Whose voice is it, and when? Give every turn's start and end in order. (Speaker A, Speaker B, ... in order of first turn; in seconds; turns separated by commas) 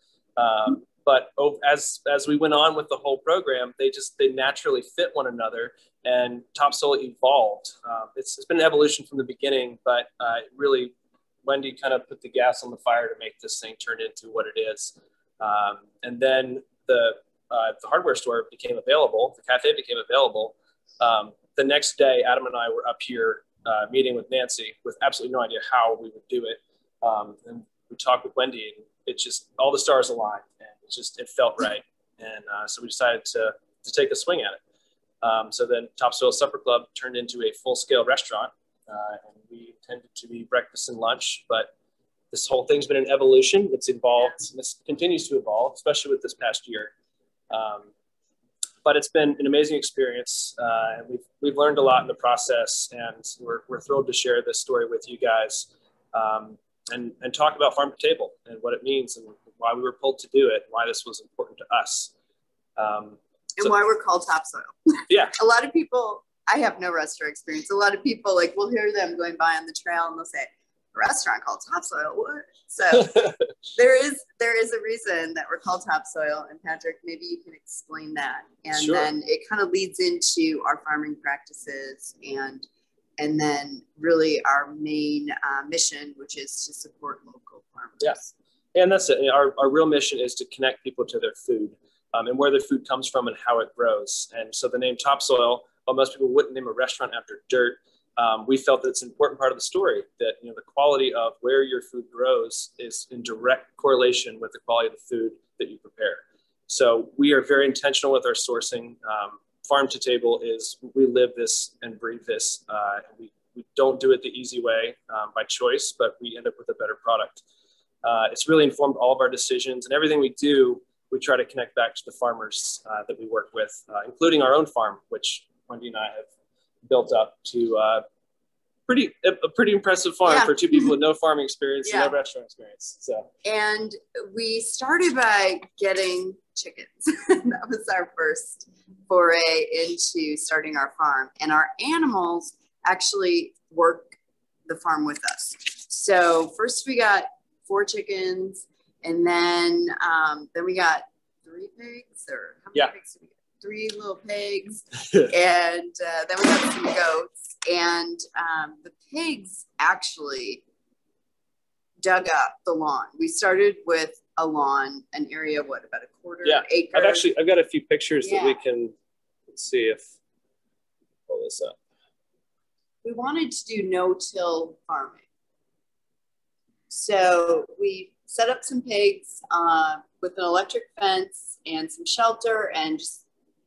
Speaker A: 0.4-34.6, Speaker A: 35.2-41.7, Speaker A: 42.3-46.9, Speaker A: 47.5-47.9, Speaker A: 48.9-62.1, Speaker A: 62.8-63.7, Speaker B: 63.6-82.7, Speaker A: 65.1-65.3, Speaker A: 78.8-79.1, Speaker B: 83.2-88.2, Speaker A: 88.8-117.4, Speaker A: 118.0-126.3, Speaker A: 126.8-128.1, Speaker A: 128.9-133.3, Speaker B: 130.3-130.5, Speaker B: 131.8-132.1, Speaker B: 133.4-144.2, Speaker B: 144.7-160.6, Speaker B: 162.0-167.3, Speaker A: 166.4-168.9, Speaker B: 168.2-168.6, Speaker A: 169.5-170.1, Speaker A: 171.3-171.8, Speaker B: 173.0-175.2, Speaker B: 176.9-183.2